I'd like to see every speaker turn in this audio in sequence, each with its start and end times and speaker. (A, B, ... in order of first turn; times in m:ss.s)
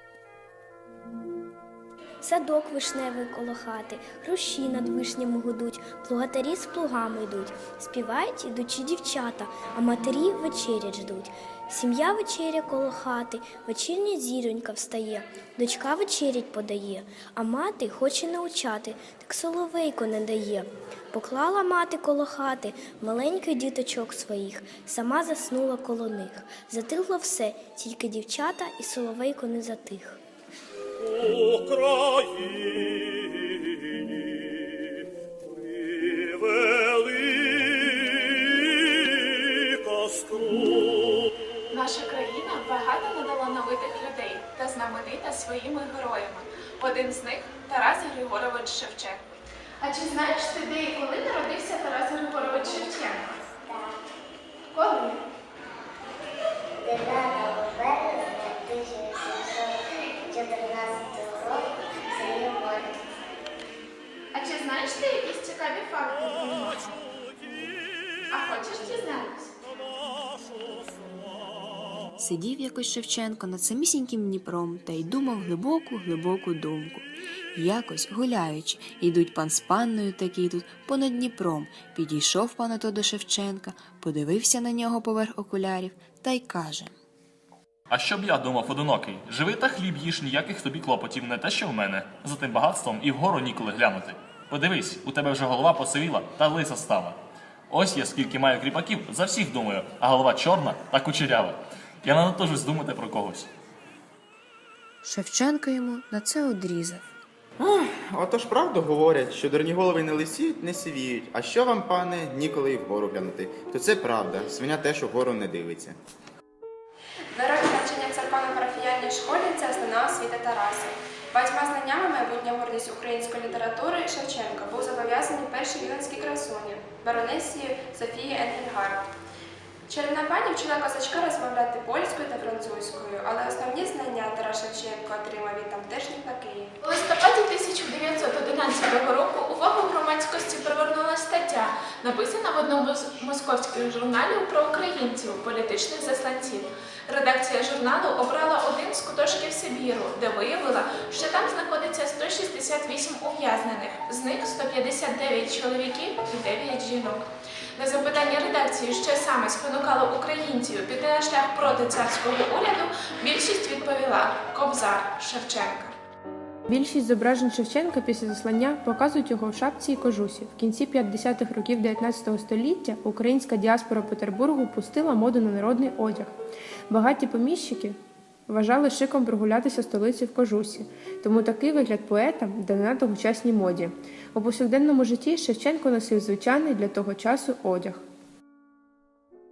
0:02.2-0:30.2 A
0:41.7-0:53.3 B
0:54.8-0:55.0 B
0:56.8-0:59.8 C
1:00.3-1:01.6 C
1:02.1-1:02.9 C
1:04.3-1:06.9 B
1:08.3-1:09.5 B
1:12.2-1:26.9 D
1:27.9-1:37.2 E
1:37.7-1:43.5 E
1:45.0-1:47.0 D
1:47.6-1:56.0 F
1:57.3-2:09.1 G
2:09.9-2:16.7 G
2:16.8-2:37.3 B
2:37.8-2:45.9 B
2:46.7-2:56.3 H
2:56.9-2:58.0 H
2:58.5-3:08.0 H